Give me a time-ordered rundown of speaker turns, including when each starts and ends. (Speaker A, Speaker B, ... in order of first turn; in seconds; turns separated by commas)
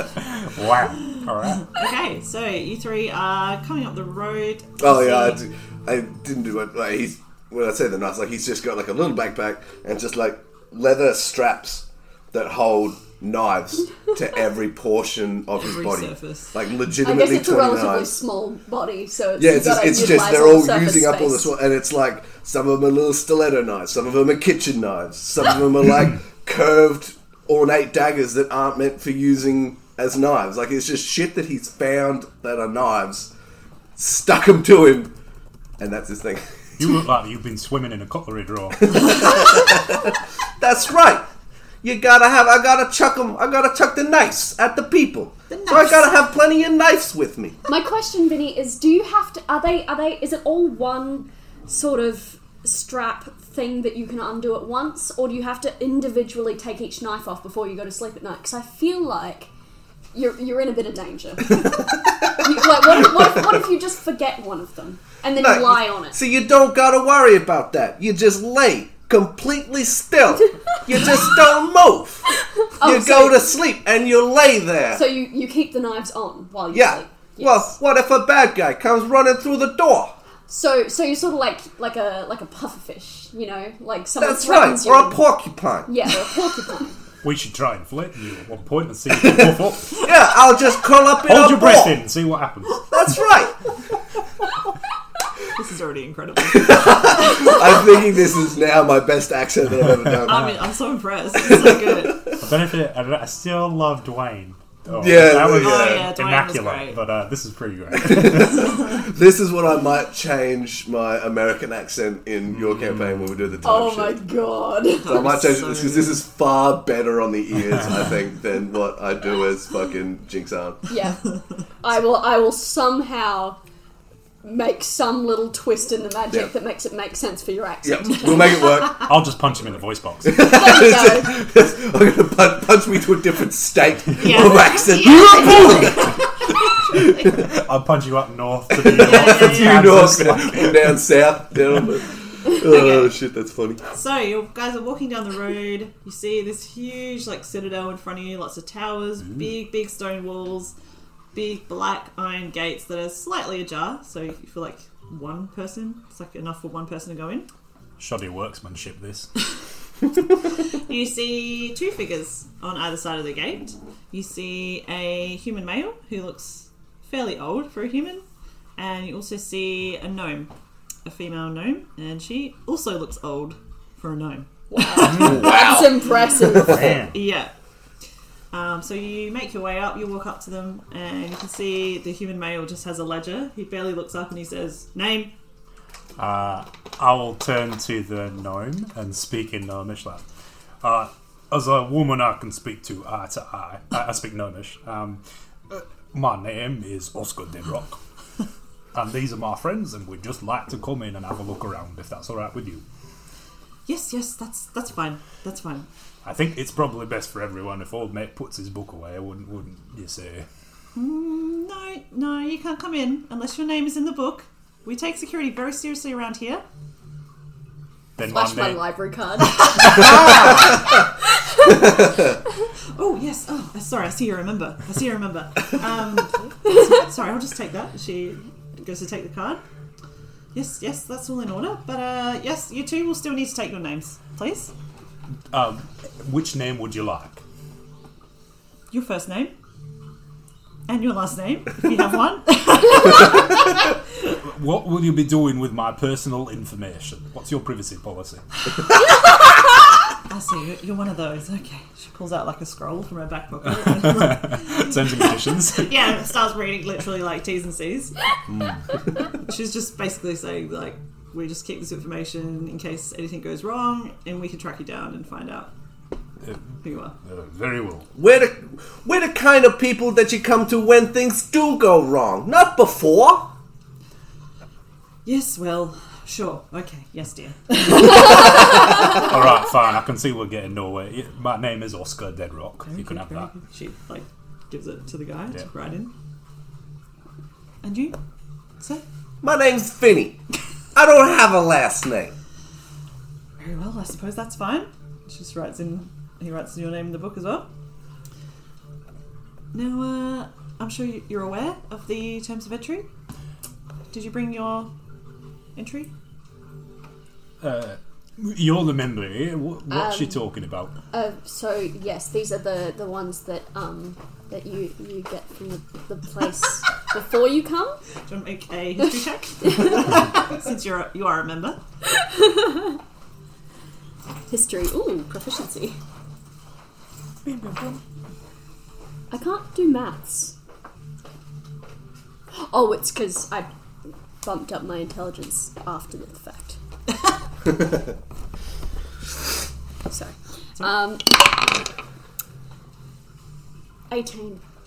Speaker A: 0.3-1.7, Speaker B: 1.6-5.4, Speaker C: 4.8-18.2, Speaker B: 15.6-16.5, Speaker D: 17.0-21.5, Speaker C: 19.4-33.3, Speaker C: 34.0-35.1, Speaker C: 35.8-36.5, Speaker A: 36.8-39.3, Speaker C: 38.9-41.3, Speaker C: 41.8-47.6, Speaker B: 45.5-46.1, Speaker D: 47.7-59.5, Speaker D: 60.1-66.2, Speaker C: 65.4-72.3, Speaker D: 72.8-73.5, Speaker C: 72.8-75.0, Speaker D: 74.9-77.8, Speaker C: 76.7-80.2, Speaker D: 80.5-85.2, Speaker C: 84.2-85.9, Speaker D: 85.9-86.9, Speaker A: 87.2-90.0, Speaker C: 89.1-92.0, Speaker A: 91.2-92.9, Speaker C: 92.9-93.5, Speaker B: 95.5-97.7, Speaker C: 96.5-100.5, Speaker A: 100.0-100.5, Speaker B: 100.2-102.3, Speaker C: 101.4-102.4, Speaker A: 102.3-108.9, Speaker C: 104.9-106.1, Speaker B: 105.4-107.0, Speaker C: 108.0-114.2, Speaker A: 112.5-113.3, Speaker D: 113.6-115.4, Speaker B: 115.0-116.2, Speaker C: 115.0-120.8, Speaker D: 120.9-121.2, Speaker D: 121.8-123.6, Speaker D: 124.4-128.7, Speaker C: 127.8-129.1, Speaker A: 129.0-130.4, Speaker C: 130.2-136.2, Speaker D: 130.4-131.4, Speaker B: 134.2-136.2, Speaker D: 135.5-135.8, Speaker C: 136.9-137.3, Speaker A: 137.4-141.0, Speaker C: 138.7-143.8, Speaker B: 138.8-140.0, Speaker B: 142.6-143.2, Speaker B: 143.9-150.7, Speaker B: 151.3-157.5, Speaker A: 158.0-159.3, Speaker B: 160.9-168.2, Speaker B: 168.8-170.5, Speaker B: 171.1-175.7, Speaker D: 174.8-177.0, Speaker A: 175.1-175.4, Speaker C: 175.2-176.9, Speaker A: 176.6-177.2, Speaker B: 177.1-177.5, Speaker B: 178.5-185.3, Speaker A: 186.2-190.2, Speaker A: 190.8-198.0, Speaker A: 198.9-202.8, Speaker B: 203.9-205.9, Speaker A: 206.2-210.5, Speaker B: 210.9-216.6, Speaker A: 218.2-218.9, Speaker D: 218.2-220.7, Speaker A: 219.6-220.8, Speaker B: 222.9-229.6, Speaker B: 230.5-234.7, Speaker A: 235.5-237.4, Speaker B: 238.9-239.5, Speaker B: 240.9-243.8, Speaker A: 244.4-248.4, Speaker B: 250.3-258.2, Speaker A: 253.9-255.9, Speaker A: 258.5-258.9, Speaker B: 259.3-265.7, Speaker A: 266.4-268.1, Speaker B: 266.8-267.1, Speaker C: 268.1-273.5, Speaker B: 275.2-279.2, Speaker A: 279.0-283.5, Speaker B: 282.9-286.1, Speaker B: 287.8-288.2, Speaker C: 289.4-290.4, Speaker C: 290.9-292.4, Speaker B: 293.6-297.7, Speaker B: 299.7-303.1, Speaker B: 304.1-304.9, Speaker B: 305.8-306.1, Speaker A: 307.6-310.9, Speaker D: 309.9-310.5, Speaker D: 311.1-318.0, Speaker B: 318.3-321.8, Speaker D: 319.6-319.9, Speaker D: 322.1-323.0, Speaker D: 324.5-326.0, Speaker A: 327.4-328.0, Speaker D: 329.3-330.6, Speaker D: 332.5-333.7, Speaker D: 334.4-336.8, Speaker D: 340.1-341.7, Speaker D: 344.1-344.6